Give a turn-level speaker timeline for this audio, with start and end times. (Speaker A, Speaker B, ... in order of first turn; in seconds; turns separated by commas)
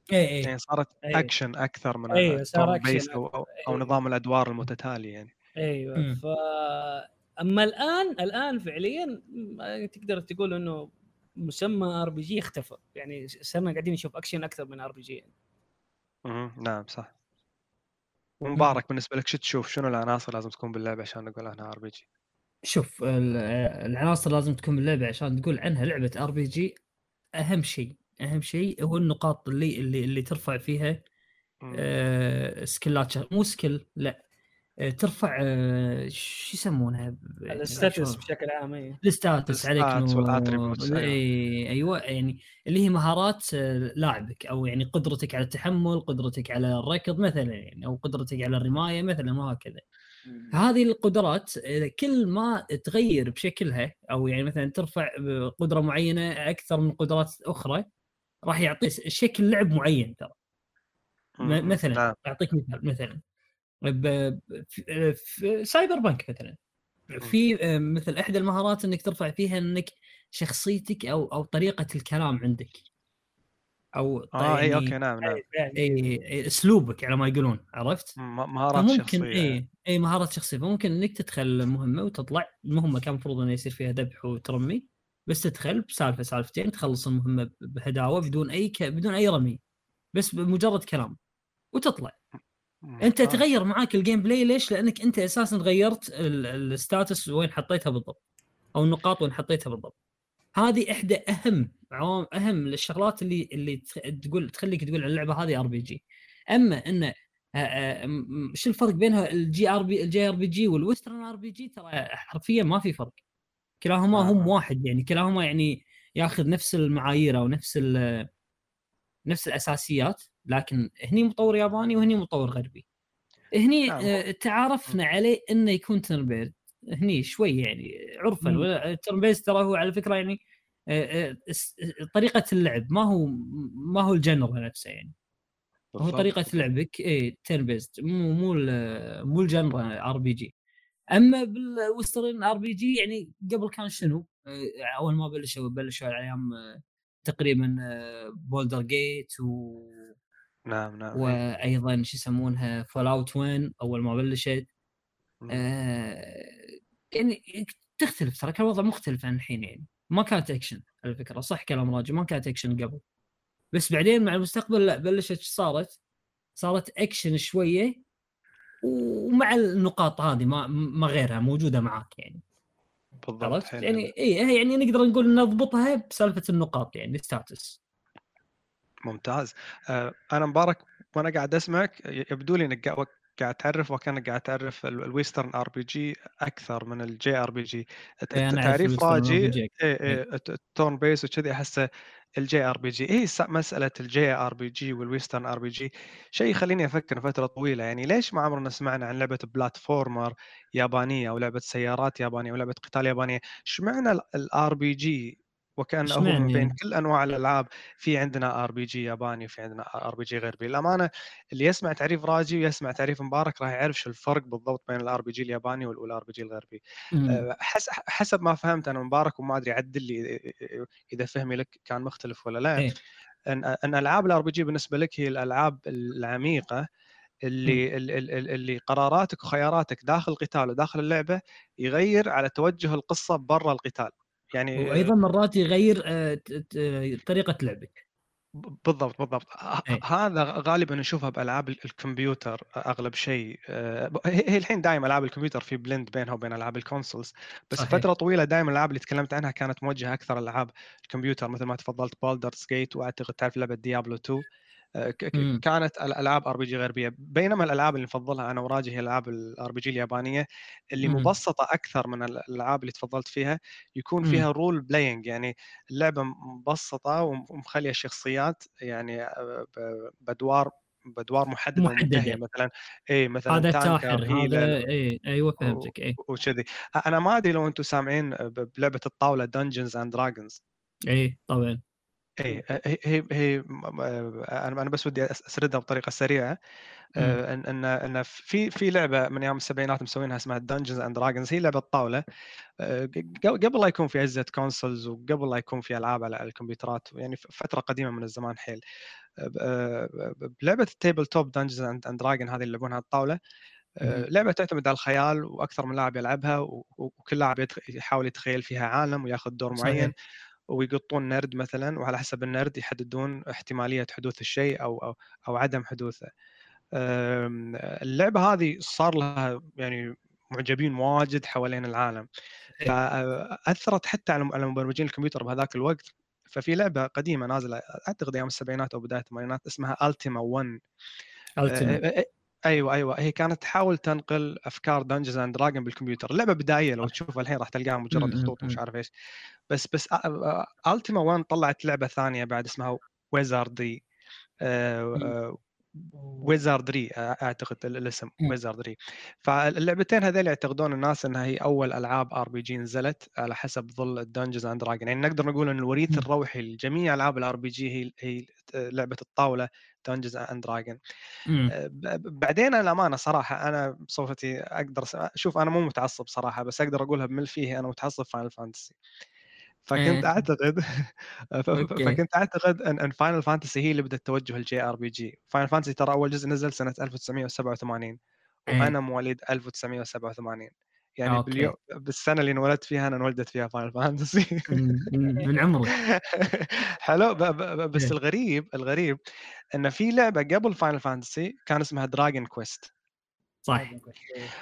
Speaker A: 0.1-0.5, Speaker B: 0.4-5.3, Speaker C: 1.1-1.3, Speaker C: 2.1-3.9, Speaker C: 5.6-10.9, Speaker C: 11.4-15.3, Speaker B: 16.3-17.1, Speaker B: 18.4-22.0, Speaker A: 22.7-26.8, Speaker A: 27.4-31.0, Speaker B: 31.6-31.9, Speaker A: 31.7-34.2, Speaker A: 34.9-38.2, Speaker C: 37.5-39.0, Speaker A: 39.0-49.8, Speaker B: 39.5-41.2, Speaker C: 50.3-50.5, Speaker A: 50.5-57.9, Speaker A: 58.5-60.3, Speaker B: 61.4-62.1, Speaker A: 61.4-63.2, Speaker A: 63.9-66.6, Speaker A: 67.1-72.8, Speaker A: 74.0-74.9, Speaker B: 74.4-75.4, Speaker C: 75.2-76.1, Speaker A: 75.8-78.2, Speaker B: 78.2-79.6, Speaker A: 78.8-89.6, Speaker A: 90.1-91.2, Speaker A: 91.7-92.2, Speaker B: 92.8-93.4, Speaker A: 93.0-98.2, Speaker A: 98.8-99.9, Speaker A: 100.6-106.0, Speaker A: 106.5-113.2, Speaker A: 113.8-118.3, Speaker B: 114.1-114.5, Speaker A: 119.3-122.8, Speaker A: 123.5-130.4, Speaker B: 123.9-124.2, Speaker A: 130.9-135.1, Speaker B: 135.9-136.6, Speaker A: 136.0-140.5, Speaker A: 141.2-150.1, Speaker B: 150.7-151.4, Speaker A: 151.2-154.7, Speaker A: 155.5-156.6, Speaker A: 157.1-163.0, Speaker A: 163.7-165.9, Speaker A: 166.6-167.9, Speaker A: 168.8-172.4, Speaker B: 173.2-174.1, Speaker A: 173.4-177.8, Speaker B: 179.1-191.8, Speaker A: 188.3-190.2, Speaker B: 192.4-222.9, Speaker A: 206.1-206.7, Speaker A: 217.1-217.4, Speaker B: 223.5-226.8, Speaker B: 227.5-235.1, Speaker A: 234.8-238.0, Speaker B: 238.8-254.4, Speaker A: 247.8-248.1, Speaker B: 255.0-260.4, Speaker A: 255.3-255.6, Speaker B: 261.0-274.7, Speaker A: 261.0-261.3, Speaker A: 271.8-272.4, Speaker A: 273.5-276.2, Speaker B: 275.6-280.6, Speaker A: 281.1-281.8, Speaker B: 282.4-286.6, Speaker B: 287.2-292.2, Speaker B: 292.8-298.8, Speaker B: 299.4-303.4, Speaker B: 304.0-310.1, Speaker A: 309.8-310.1, Speaker B: 310.7-316.3, Speaker B: 317.0-322.3, Speaker B: 322.9-330.7, Speaker A: 331.6-332.0, Speaker B: 331.7-339.1, Speaker A: 338.1-338.8, Speaker B: 339.7-344.0, Speaker B: 344.6-361.0, Speaker C: 346.2-346.5, Speaker A: 361.5-361.7, Speaker B: 361.7-369.0, Speaker B: 369.9-378.2, Speaker A: 370.0-370.3, Speaker A: 371.8-372.2, Speaker B: 378.7-384.8, Speaker A: 381.3-381.7, Speaker A: 384.7-385.9, Speaker B: 385.9-389.2, Speaker B: 389.8-392.9, Speaker A: 393.7-393.9, Speaker C: 393.7-394.5